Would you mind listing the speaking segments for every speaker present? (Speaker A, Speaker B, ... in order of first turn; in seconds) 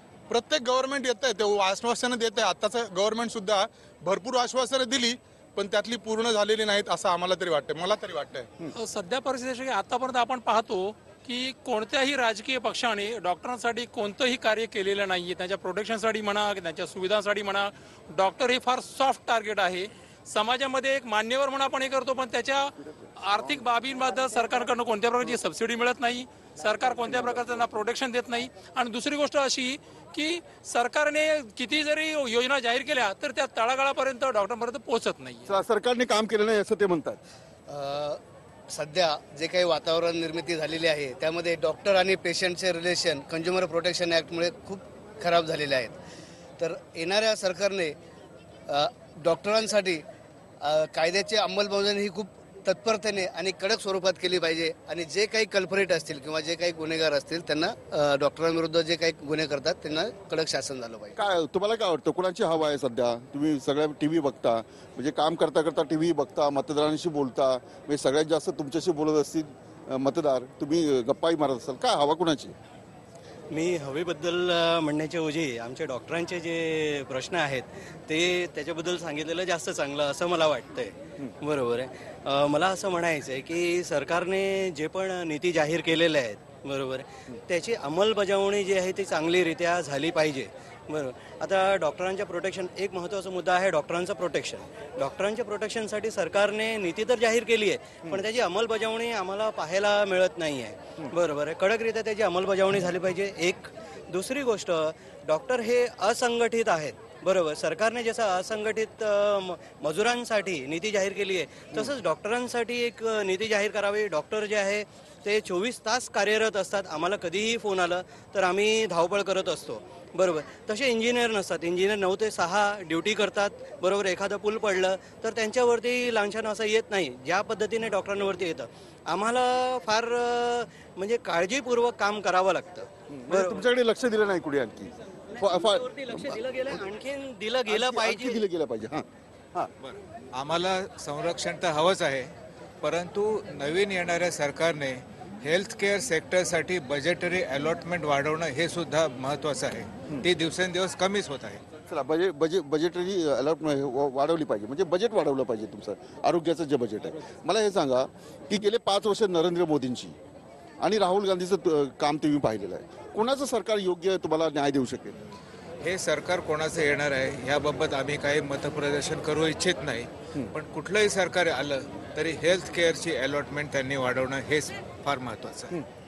Speaker A: 0.3-8.5
Speaker B: 8.8-35.5
Speaker C: 27.1-27.5, 35.5-37.2, 61.1-72.5, 133.1-136.3, 137.7-139.7, 151.9-160.2, 160.8-165.2
Speaker D: 37.7-46.0, 46.6-48.0, 48.7-50.0, 50.6-61.1
Speaker E: 73.5-133.6, 135.4-138.4
Speaker F: 139.8-142.3, 142.8-151.6, 165.8-175.8